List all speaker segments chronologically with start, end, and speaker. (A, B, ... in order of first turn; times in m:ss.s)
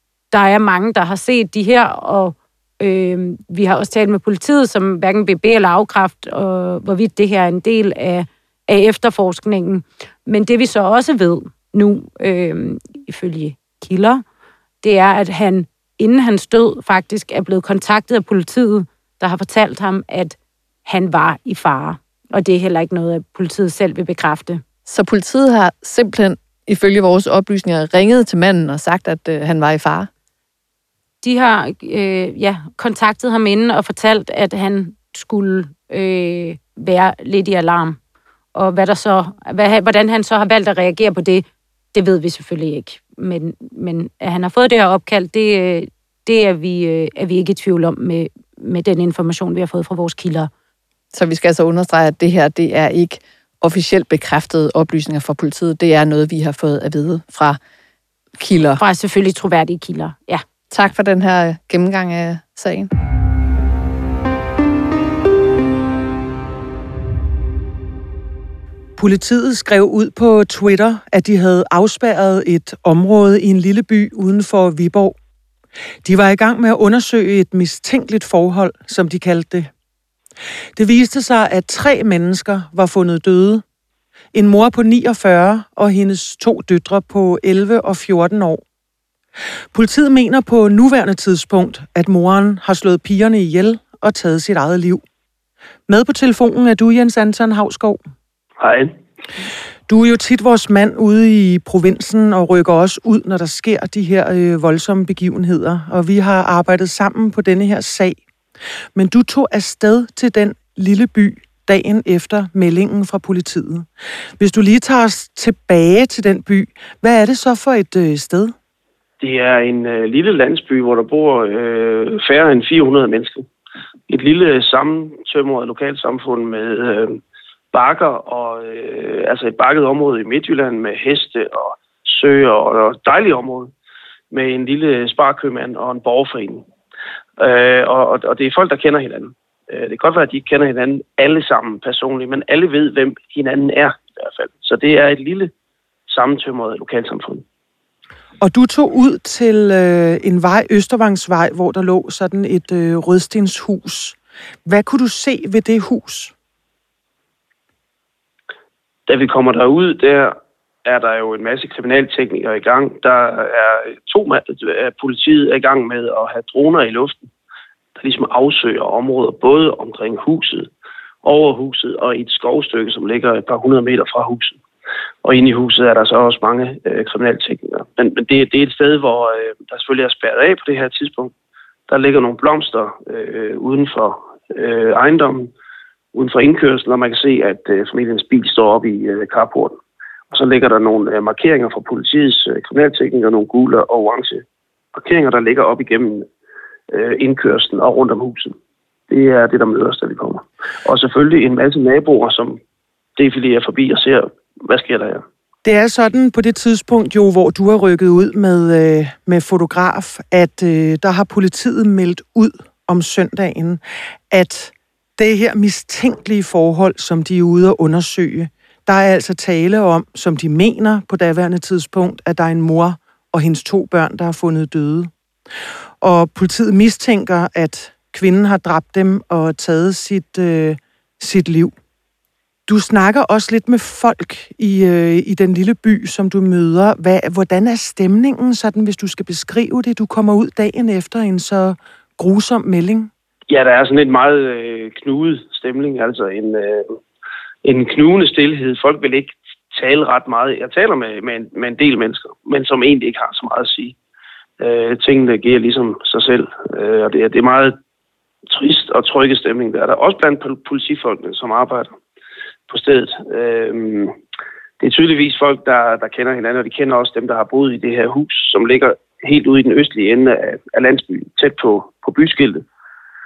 0:00.3-0:14.2 A
0:14.8-0:24.6 A
0:24.9-0:30.1 B
0:31.2-0:38.0 A
0:38.6-0:50.5 A
0:51.1-0:57.6 B
0:58.4-0:58.8 B
0:58.8-1:00.4 A
1:00.7-1:02.9 B
1:09.0-1:15.2 C
1:16.0-1:19.7 C
1:20.8-1:23.6 C
1:24.3-1:28.6 C
1:29.7-1:35.0 C
1:35.9-1:38.0 C
1:38.6-1:38.9 D
1:39.9-1:48.2 C
1:49.0-1:53.9 C
1:54.4-1:58.6 C
1:59.2-2:03.5 D
2:04.1-2:07.2 D
2:07.7-2:13.7 D
2:14.3-2:16.6 D
2:17.4-2:25.5 D
2:26.1-2:27.4 D
2:28.4-2:36.3 C
2:39.1-2:47.3 D
2:48.0-2:50.7 D
2:51.2-2:54.6 D
2:55.2-3:01.3 D
3:01.9-3:05.5 D
3:06.1-3:09.8 D
3:10.3-3:16.3 D
3:16.9-3:18.6 D
3:19.1-3:22.6 D
3:23.2-3:25.2 D
3:25.6-3:45.1 C
3:46.0-3:51.7 C
3:52.7-4:03.1 C
4:03.5-4:07.0 D
4:07.6-4:14.0 D
4:14.6-4:17.8 D
4:18.5-4:21.9 D
4:22.7-4:24.2 D
4:24.8-4:32.6 D